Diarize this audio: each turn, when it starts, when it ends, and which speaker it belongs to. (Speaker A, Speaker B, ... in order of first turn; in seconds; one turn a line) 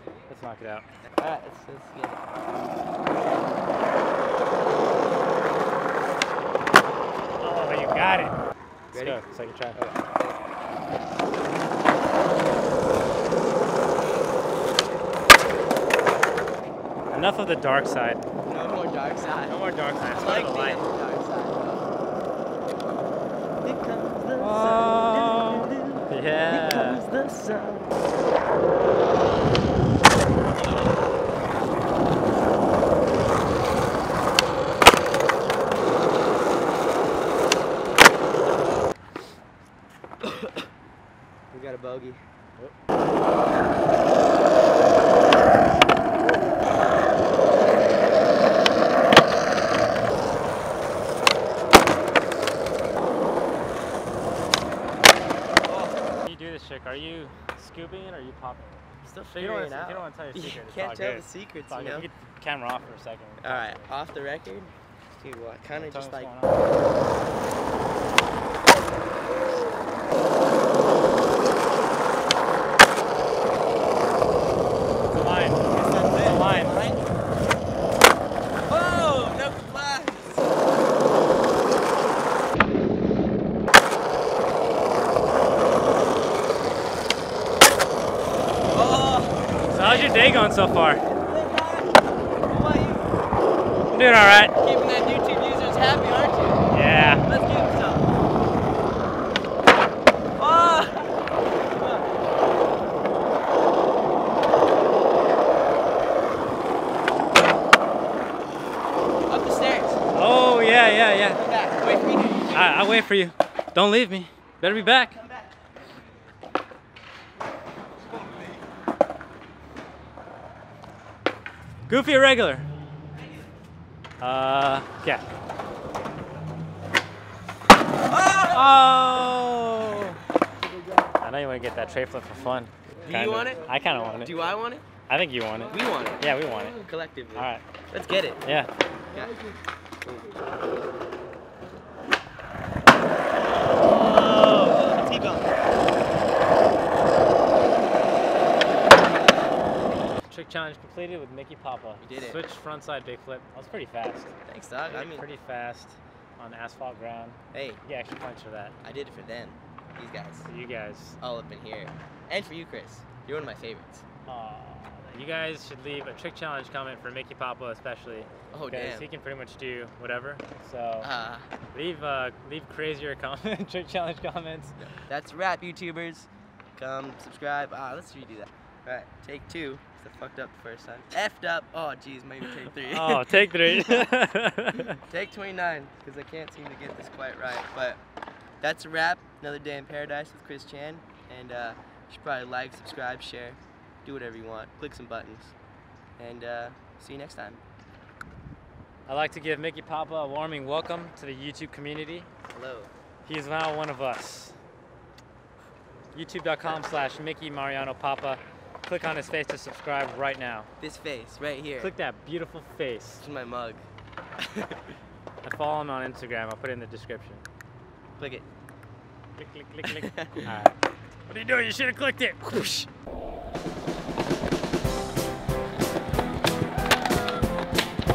Speaker A: 0.3-0.9
Speaker B: 1.2-2.2
Speaker A: 7.4-8.4
Speaker B: 8.9-10.4
Speaker A: 8.9-9.8
Speaker A: 17.1-18.2
Speaker B: 18.4-21.9
Speaker A: 19.5-20.9
Speaker B: 23.6-28.0
Speaker A: 24.4-27.0
Speaker B: 40.2-40.7
Speaker B: 41.5-42.3
Speaker B: 55.7-56.0
Speaker A: 56.2-58.8
Speaker B: 59.0-62.1
Speaker A: 59.3-63.9
Speaker B: 63.4-66.3
Speaker A: 65.8-66.7
Speaker A: 75.1-77.0
Speaker B: 75.7-77.0
Speaker B: 78.7-80.5
Speaker B: 88.7-90.1
Speaker A: 89.7-91.0
Speaker B: 91.1-93.2
Speaker A: 93.9-94.5
Speaker B: 94.6-96.7
Speaker A: 96.7-97.3
Speaker B: 97.2-98.1
Speaker B: 100.4-101.2
Speaker B: 109.3-110.0
Speaker A: 110.1-111.4
Speaker B: 111.2-112.8
Speaker A: 112.5-115.2
Speaker B: 114.8-115.5
Speaker A: 121.9-122.7
Speaker A: 124.2-125.2
Speaker B: 128.1-128.9
Speaker A: 128.4-130.2
Speaker A: 131.2-134.4
Speaker B: 133.0-133.6
Speaker B: 134.2-134.8
Speaker A: 135.1-136.8
Speaker B: 135.7-136.2
Speaker B: 136.8-138.4
Speaker A: 137.4-137.7
Speaker A: 138.4-138.7
Speaker B: 139.1-139.4
Speaker B: 140.0-140.4
Speaker B: 143.6-145.6
Speaker A: 150.3-154.3
Speaker B: 152.0-152.4
Speaker B: 154.5-155.3
Speaker A: 154.9-158.8
Speaker B: 157.5-157.8
Speaker B: 158.8-160.5
Speaker A: 160.5-161.2
Speaker B: 161.2-164.1
Speaker A: 164.3-171.1
Speaker B: 168.5-169.1
Speaker B: 171.0-171.5
Speaker A: 171.7-174.8
Speaker B: 174.8-184.1
Speaker A: 182.8-185.0
Speaker B: 185.0-188.0
Speaker B: 188.6-195.5
Speaker B: 196.2-197.6
Speaker A: 199.1-202.3
Speaker B: 202.5-202.9
Speaker A: 203.2-204.6
Speaker A: 206.1-210.7
Speaker B: 210.8-211.9
Speaker A: 211.8-213.2
Speaker B: 213.2-213.8
Speaker B: 214.4-214.8
Speaker A: 215.4-217.4
Speaker B: 218.2-218.4
Speaker A: 219.4-222.9
Speaker B: 219.8-220.5